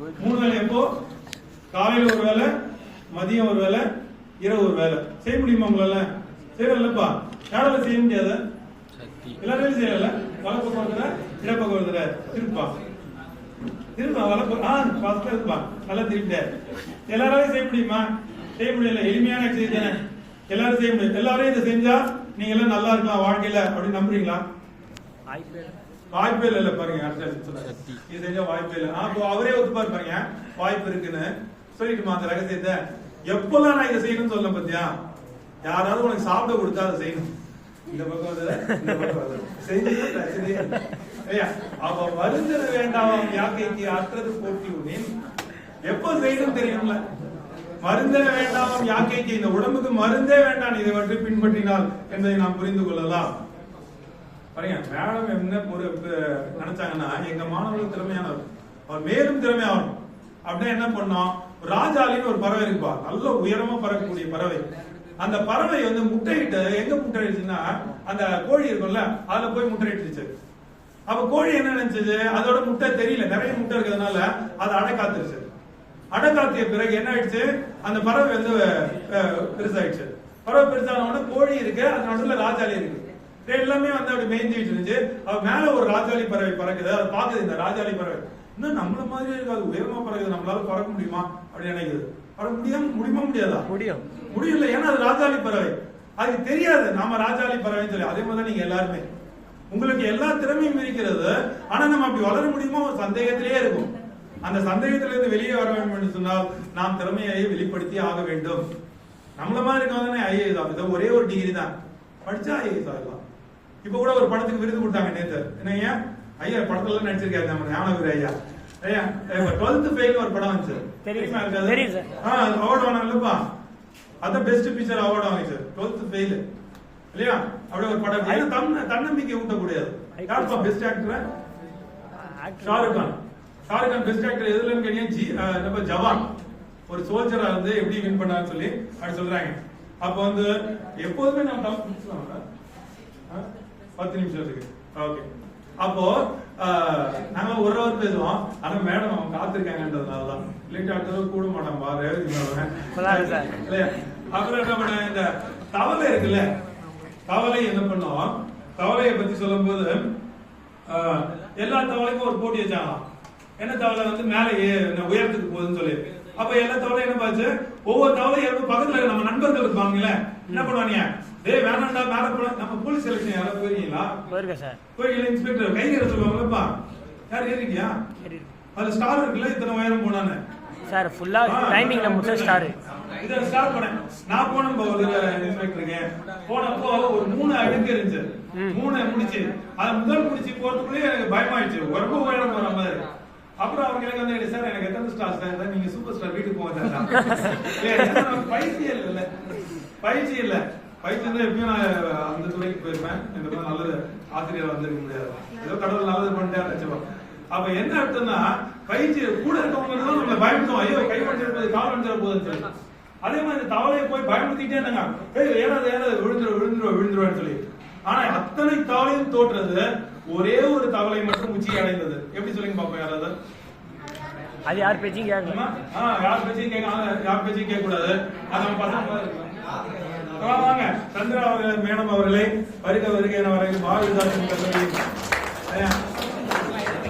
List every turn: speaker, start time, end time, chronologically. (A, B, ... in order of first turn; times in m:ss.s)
0:00.2-0:00.9 A
0:01.7-0:02.5 A
0:03.1-0:03.8 A
0:04.4-0:08.4 A
0:09.4-0:12.7 A
0:14.0-0:16.5 A
0:17.1-0:18.1 A
0:18.6-0:24.4 A
0:25.3-0:25.7 B
0:26.1-0:34.9 A
0:35.6-0:37.3 A
0:37.9-0:45.1 A
0:45.9-0:47.0 A
0:47.8-0:53.3 A
0:54.6-1:04.6 A
1:05.2-1:10.3 A
1:11.1-1:15.5 A
1:16.1-1:33.7 A
1:33.7-1:34.0 B
1:34.2-1:39.0 A
1:39.7-1:43.9 A
1:44.4-1:48.6 A
1:49.4-1:51.7 A
1:52.2-1:53.2 A
1:53.8-2:03.4 A
2:01.0-2:02.1 B
2:04.2-2:06.4 A
2:07.1-2:11.2 A
2:10.2-2:10.7 B
2:12.1-2:13.1 B
2:12.6-2:16.3 A
2:16.9-2:22.4 A
2:23.3-2:25.2 A
2:25.8-2:36.4 A
2:32.9-2:33.6 B
2:37.3-2:40.0 A
2:40.9-2:43.0 A
2:43.6-2:54.2 A
2:54.3-2:54.8 B
2:55.0-2:56.7 A
2:57.3-2:58.0 A
2:58.2-2:58.5 B
2:58.7-3:00.4 A
3:00.9-3:02.7 B
3:01.4-3:13.0 A
3:13.6-3:19.3 A
3:17.2-3:17.5 B
3:20.0-3:32.7 A
3:33.2-3:43.3 A
3:44.6-3:45.6 B
3:45.4-3:49.5 A
3:50.4-3:55.0 A
3:55.7-3:56.0 A